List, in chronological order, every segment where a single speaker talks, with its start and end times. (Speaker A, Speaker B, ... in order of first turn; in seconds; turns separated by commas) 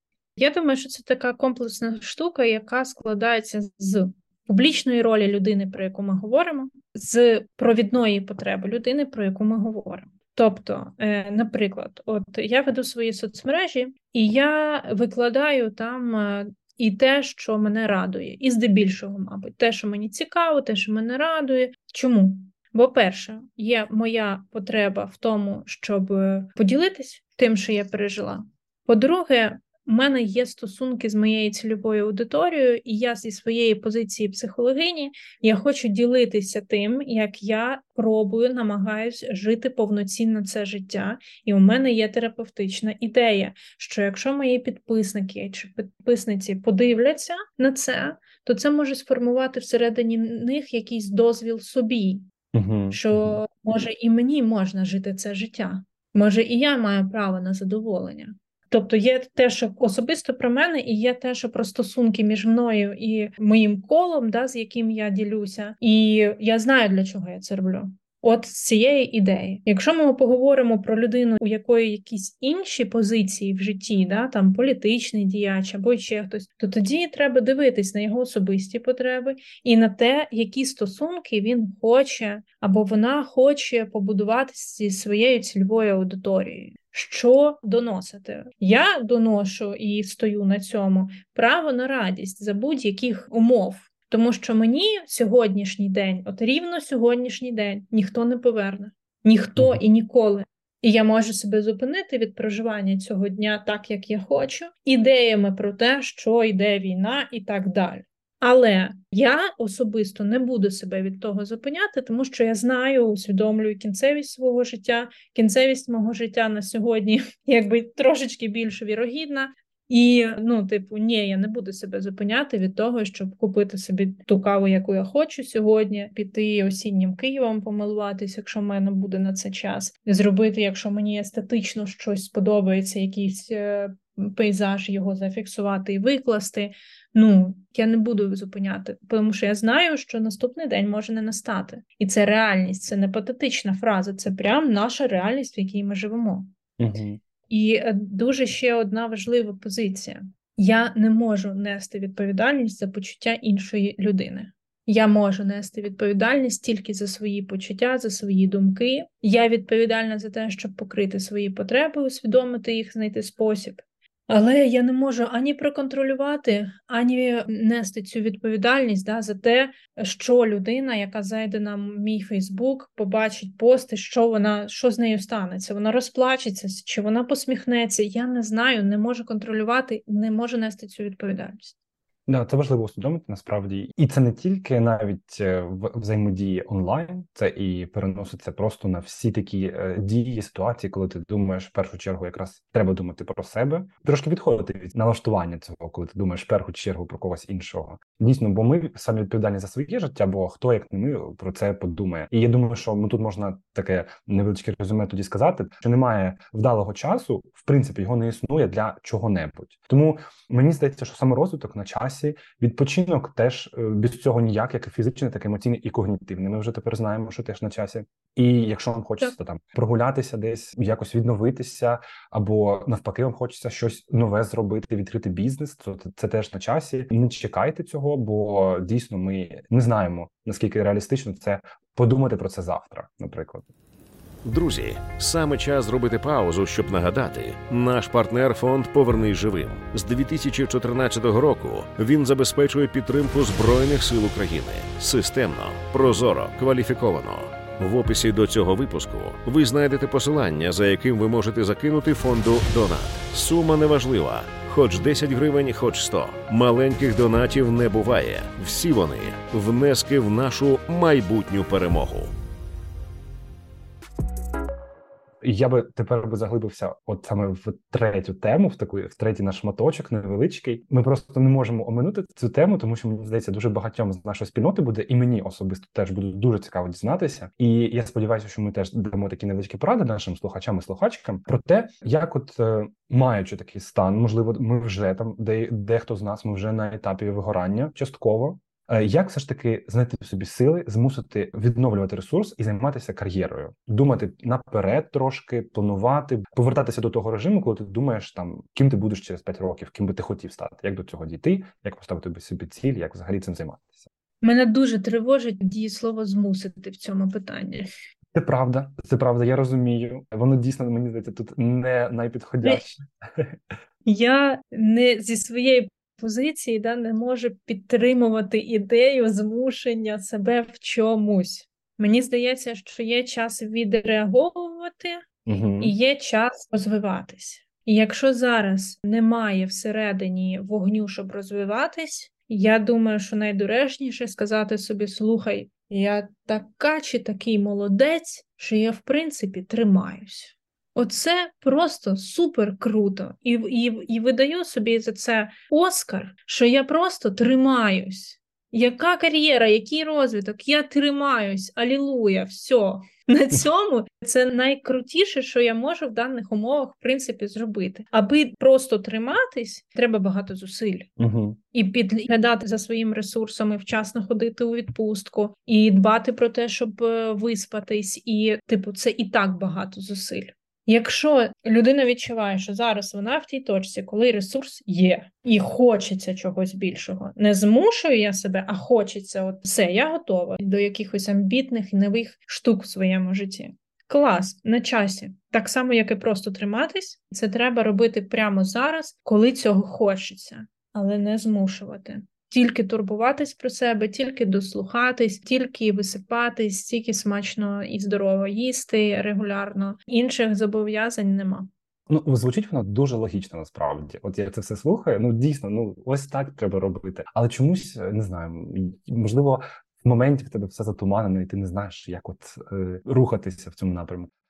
Speaker A: 0.4-52.3, Speaker B: 52.5-53.4, Speaker A: 52.9-146.5, Speaker B: 146.8-147.2, Speaker A: 147.5-181.7, Speaker B: 182.3-233.7, Speaker C: 234.4-262.3, Speaker B: 265.4-304.1, Speaker A: 304.4-307.9, Speaker B: 308.3-313.6, Speaker A: 314.0-325.2, Speaker B: 325.4-325.9, Speaker A: 325.8-361.1, Speaker B: 361.2-361.6, Speaker A: 361.7-401.7, Speaker B: 402.1-414.3